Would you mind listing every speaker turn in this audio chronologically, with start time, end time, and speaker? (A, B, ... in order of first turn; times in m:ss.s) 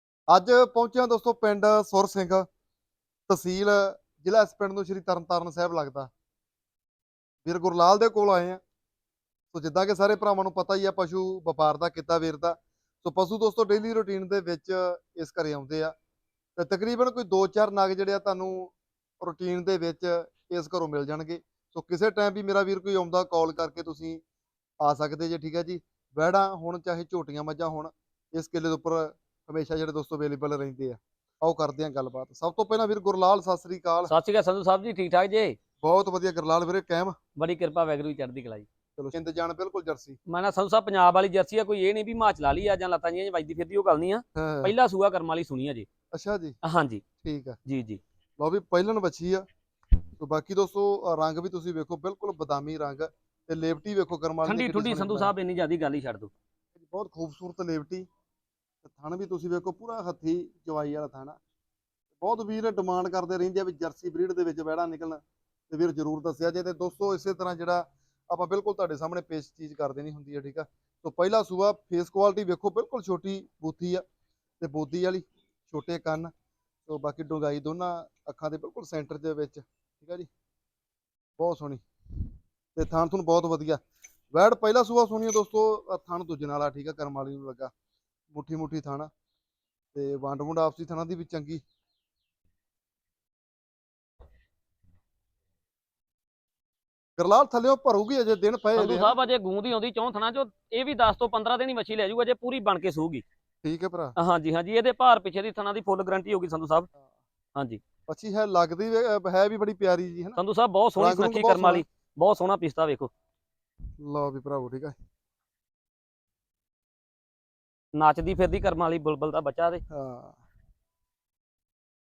0:00.3-0:02.5 A
0:03.3-0:06.1 A
0:07.4-0:08.6 A
0:09.5-0:15.9 A
0:16.6-0:24.2 A
0:24.8-0:34.1 A
0:34.1-0:35.6 B
0:35.8-0:37.2 A
0:37.4-0:38.7 B
0:39.0-0:40.2 A
0:40.3-0:45.9 B
0:44.4-0:44.7 A
0:46.1-0:46.6 A
0:46.6-0:47.0 B
0:47.2-0:47.6 A
0:47.6-0:48.0 B
0:48.4-0:49.4 A
0:50.2-0:55.3 A
0:54.4-0:56.3 B
0:56.8-0:58.1 A
0:58.8-1:01.4 A
1:02.2-1:14.0 A
1:14.6-1:16.3 A
1:16.8-1:20.3 A
1:21.4-1:21.8 A
1:22.7-1:23.8 A
1:24.3-1:27.7 A
1:28.3-1:29.1 A
1:29.9-1:31.6 A
1:37.2-1:39.2 A
1:38.8-1:43.2 B
1:43.6-1:44.2 A
1:44.2-1:46.9 B
1:47.6-1:47.8 B
1:48.1-1:50.4 A
1:50.4-1:53.1 B
1:51.0-1:51.8 A
1:54.0-1:55.0 A
1:57.9-1:59.8 B
1:59.9-2:00.4 A